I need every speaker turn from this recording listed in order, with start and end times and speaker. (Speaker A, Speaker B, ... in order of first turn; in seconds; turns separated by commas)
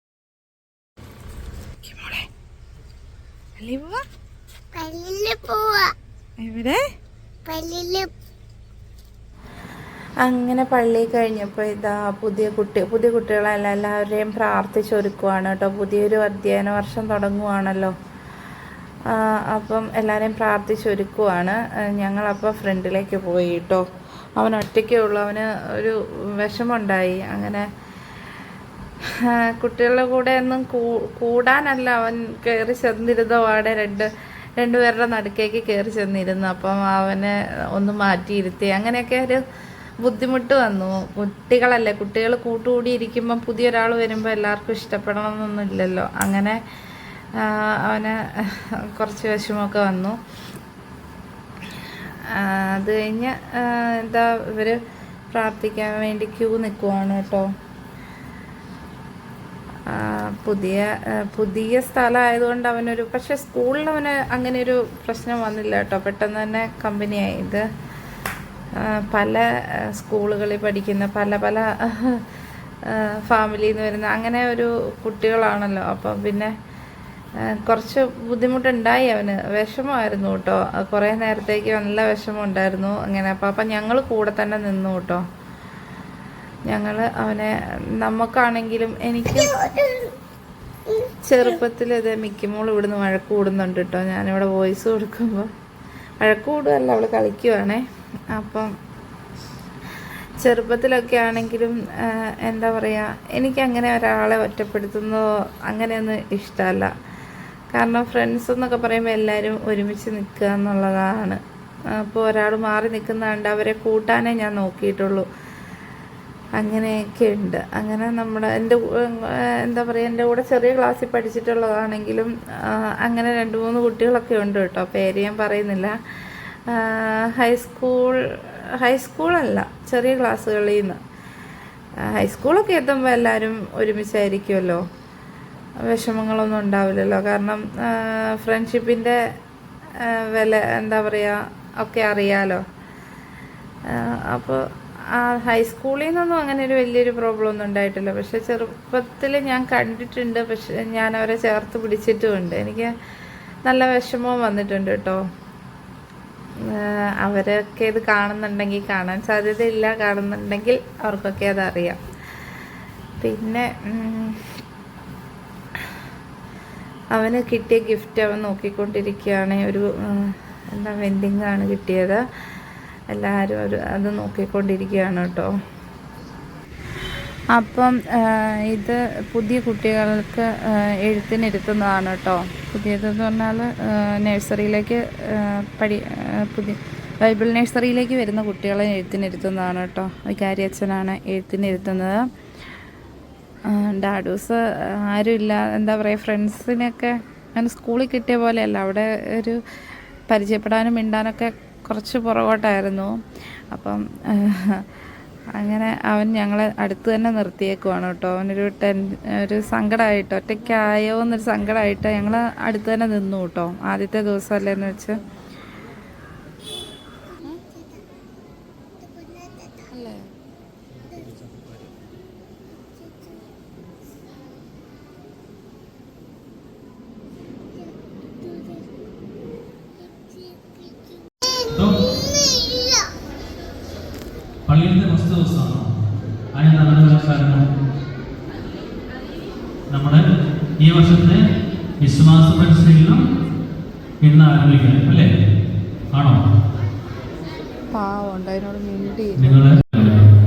Speaker A: 1.9-2.3, Speaker A: 3.6-4.0, Speaker B: 4.8-5.9, Speaker A: 6.4-6.8, Speaker B: 7.5-8.1, Speaker A: 10.2-17.9, Speaker A: 19.1-27.7, Speaker A: 29.1-39.4, Speaker A: 40.0-46.6, Speaker A: 47.4-50.2, Speaker A: 52.3-54.8, Speaker A: 55.3-57.5, Speaker A: 59.9-67.7, Speaker A: 68.8-72.2, Speaker A: 72.8-76.5, Speaker A: 77.5-85.2, Speaker A: 86.7-89.8, Speaker B: 89.4-90.1, Speaker A: 91.2-95.5, Speaker A: 96.2-98.7, Speaker A: 100.4-106.9, Speaker A: 107.7-115.3, Speaker A: 116.6-126.0, Speaker A: 126.7-131.0, Speaker A: 132.0-134.8, Speaker A: 135.8-139.2, Speaker A: 140.0-142.6, Speaker A: 143.9-152.9, Speaker A: 153.7-155.2, Speaker A: 156.6-162.0, Speaker A: 163.2-164.4, Speaker A: 167.1-172.2, Speaker A: 173.1-175.5, Speaker A: 177.5-192.3, Speaker A: 193.7-199.6, Speaker A: 200.3-203.1, Speaker A: 203.7-204.9, Speaker A: 205.5-215.2, Speaker B: 217.3-218.0, Speaker B: 219.0-219.9, Speaker A: 219.9-220.3, Speaker B: 221.1-221.4, Speaker B: 223.0-223.4, Speaker B: 228.4-228.9, Speaker B: 230.1-231.5, Speaker C: 231.6-232.1, Speaker B: 232.3-233.1, Speaker C: 234.7-235.9, Speaker C: 236.6-237.7, Speaker C: 239.9-240.2, Speaker C: 240.8-241.4, Speaker C: 242.0-243.2, Speaker C: 244.2-245.3, Speaker C: 246.1-246.4, Speaker A: 247.9-249.7, Speaker C: 249.4-250.2